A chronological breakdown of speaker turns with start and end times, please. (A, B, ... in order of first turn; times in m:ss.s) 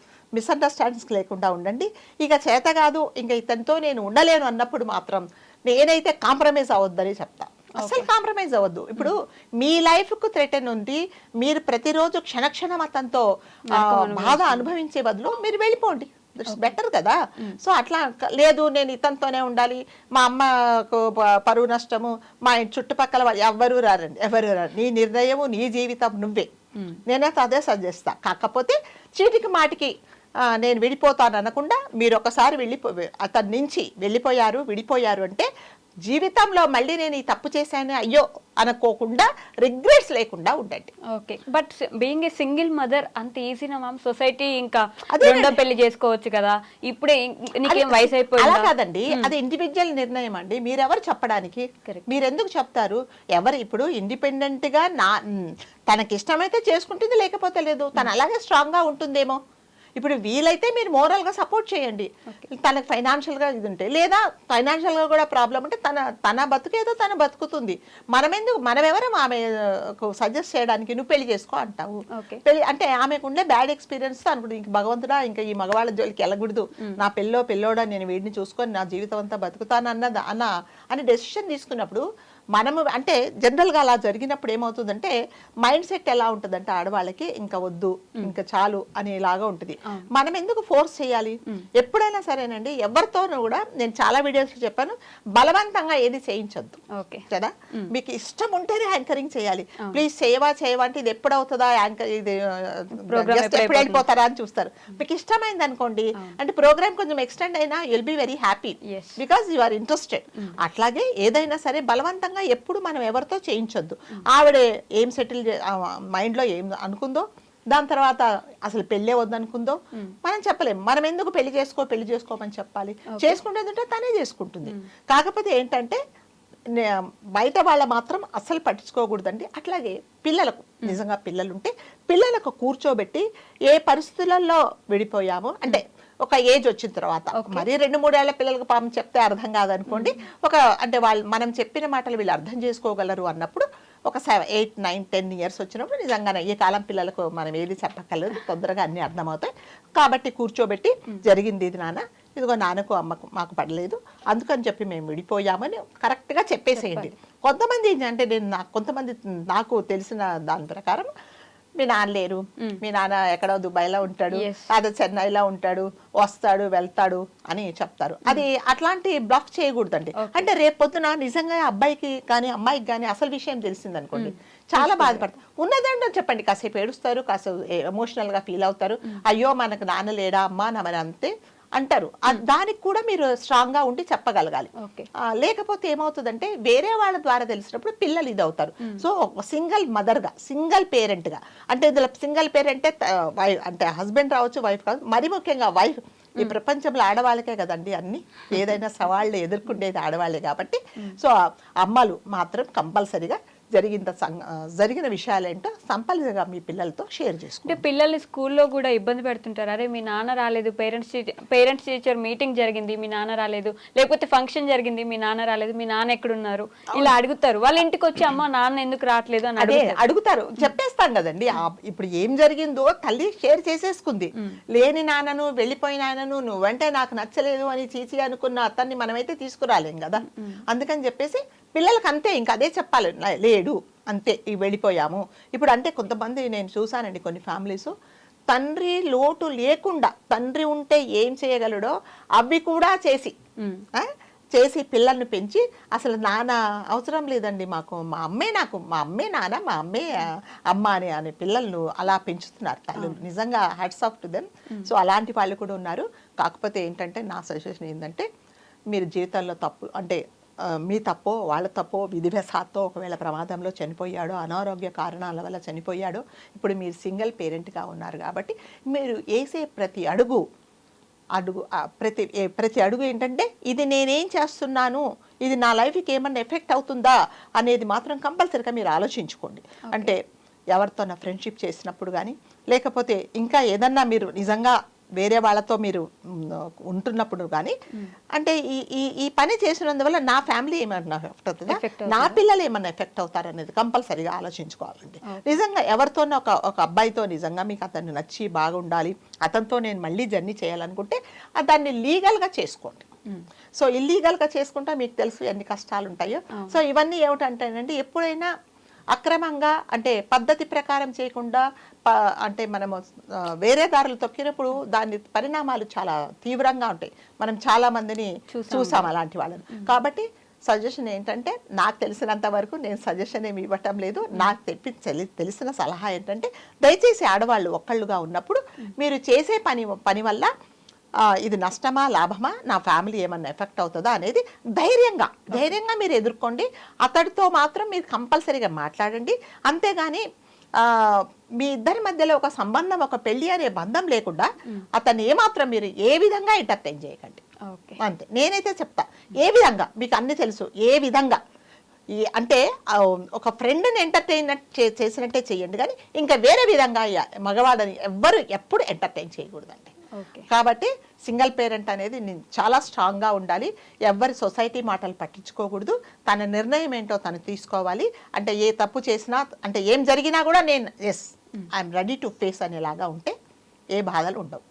0:00.4-0:13.2 A
0:07.8-0:08.1 B
0:13.7-0:14.7 B
0:13.8-0:26.5 A
0:16.5-0:16.7 B
0:26.7-0:27.0 B
0:27.1-0:29.9 A
0:30.4-0:35.5 A
0:36.0-0:40.9 A
0:41.1-0:49.3 B
0:45.1-0:45.6 A
0:47.6-0:59.4 A
1:00.0-1:22.0 A
1:02.3-1:02.5 B
1:12.1-1:12.4 B
1:22.5-2:06.0 A
1:36.9-1:37.9 B
1:39.8-1:40.0 B
1:43.0-1:44.0 B
1:48.8-1:49.2 B
2:03.1-2:03.4 B
2:06.7-2:41.1 A
2:17.3-2:17.7 B
2:19.9-2:20.3 B
2:36.7-2:37.2 B
2:41.8-3:04.7 A
2:42.6-2:42.8 B
2:44.3-2:44.8 B
2:50.1-2:50.5 B
2:54.1-2:55.3 B
3:04.8-3:05.1 B
3:05.2-3:27.8 A
3:08.8-3:09.1 B
3:18.5-3:18.8 B
3:27.6-3:40.8 B
3:39.6-3:57.9 A
3:50.2-3:50.6 B
3:58.5-4:03.3 A
4:03.6-4:03.8 B
4:03.9-4:18.2 A
4:12.9-4:13.3 B
4:14.7-4:14.9 B
4:18.9-4:30.4 A
4:31.4-4:40.2 A
4:39.8-4:40.1 B
4:40.7-4:47.7 A
4:48.3-5:03.1 A
4:51.6-4:52.4 B
4:55.2-4:55.6 B
5:03.8-5:08.5 A
5:06.5-5:06.8 B
5:09.1-5:30.5 A
5:18.5-5:19.1 B
5:19.7-5:19.9 B
5:31.4-5:40.2 A
5:40.8-5:47.4 A
5:47.6-5:48.0 B
5:48.0-5:51.4 A
5:52.3-5:59.9 A
6:00.2-6:00.5 B
6:00.5-6:13.3 A
6:14.0-6:14.6 A